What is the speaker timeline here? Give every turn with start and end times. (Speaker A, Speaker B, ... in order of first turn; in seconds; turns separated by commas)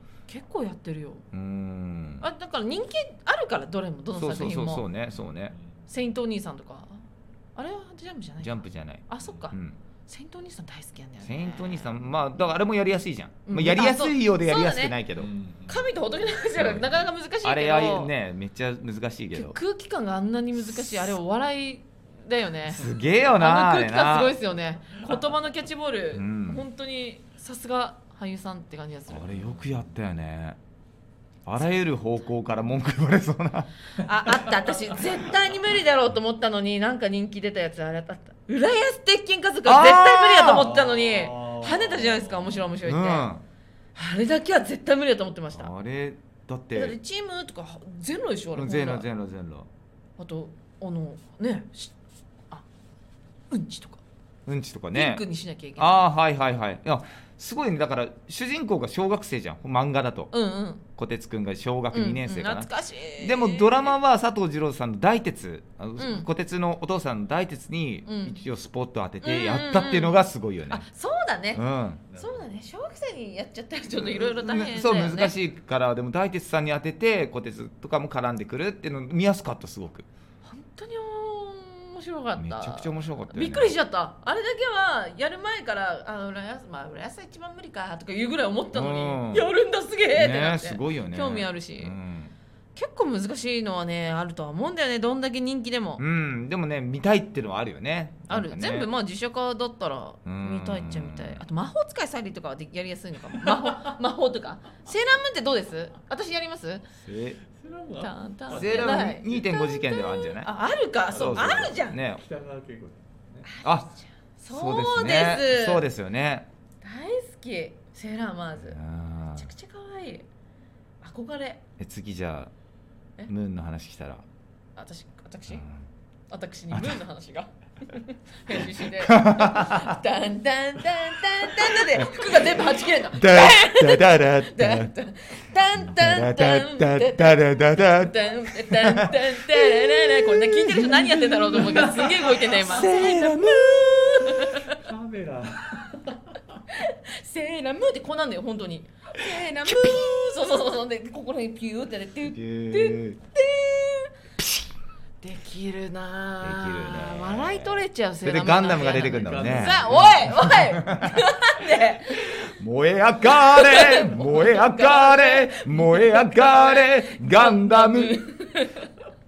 Speaker A: 0.3-1.2, Speaker B: 1.3-2.3, Speaker A: 2.2-4.8, Speaker B: 4.2-5.6, Speaker C: 5.3-5.9, Speaker A: 5.9-7.0, Speaker A: 7.6-12.0, Speaker B: 8.4-9.8, Speaker B: 11.2-15.3, Speaker A: 13.5-15.0, Speaker C: 15.2-15.9, Speaker A: 15.7-18.1, Speaker B: 16.6-19.6, Speaker A: 19.3-29.4, Speaker B: 22.7-24.4, Speaker B: 26.1-26.6, Speaker B: 29.1-30.6, Speaker C: 29.4-29.8, Speaker B: 31.5-33.7, Speaker A: 34.0-43.3, Speaker B: 39.7-40.7, Speaker C: 40.5-42.7, Speaker B: 42.8-43.5, Speaker A: 44.0-45.7, Speaker B: 45.5-47.0, Speaker A: 46.7-49.1, Speaker B: 48.5-49.7, Speaker A: 50.2-52.0, Speaker A: 53.5-54.0, Speaker B: 54.5-55.2, Speaker A: 54.9-56.0, Speaker B: 55.8-60.3, Speaker A: 60.3-60.9, Speaker B: 61.0-70.8, Speaker A: 61.9-64.0, Speaker A: 66.0-66.3, Speaker A: 68.1-68.4, Speaker A: 69.2-71.6, Speaker B: 71.5-72.0, Speaker C: 72.1-72.5, Speaker A: 72.2-75.3, Speaker B: 74.0-80.1, Speaker A: 80.5-92.0, Speaker B: 82.4-83.7, Speaker B: 88.7-89.5, Speaker B: 90.1-92.3, Speaker A: 92.8-96.0, Speaker B: 96.0-98.9, Speaker A: 98.3-106.9, Speaker B: 100.2-101.4, Speaker C: 103.5-103.8, Speaker B: 107.0-107.4, Speaker C: 107.5-109.5, Speaker A: 108.0-112.0, Speaker B: 108.5-110.5, Speaker C: 111.1-113.5, Speaker B: 111.1-112.2, Speaker A: 113.5-115.9, Speaker B: 114.5-116.5, Speaker A: 116.8-118.8, Speaker B: 118.6-119.5, Speaker A: 119.3-120.3, Speaker A: 121.0-121.6, Speaker B: 121.8-122.5, Speaker B: 123.3-124.2, Speaker A: 124.8-125.7, Speaker B: 125.5-125.8, Speaker A: 126.3-144.8, Speaker B: 126.7-127.0, Speaker B: 129.0-130.0, Speaker B: 131.6-132.3, Speaker B: 133.1-134.9, Speaker B: 135.8-141.2, Speaker C: 141.6-142.6, Speaker B: 142.6-144.4, Speaker C: 144.7-146.6, Speaker A: 146.7-154.1, Speaker B: 149.6-150.5, Speaker B: 152.3-153.2, Speaker B: 154.4-154.7, Speaker A: 155.2-162.3, Speaker B: 156.4-161.2, Speaker C: 159.1-160.6, Speaker B: 162.2-168.2, Speaker A: 163.2-168.9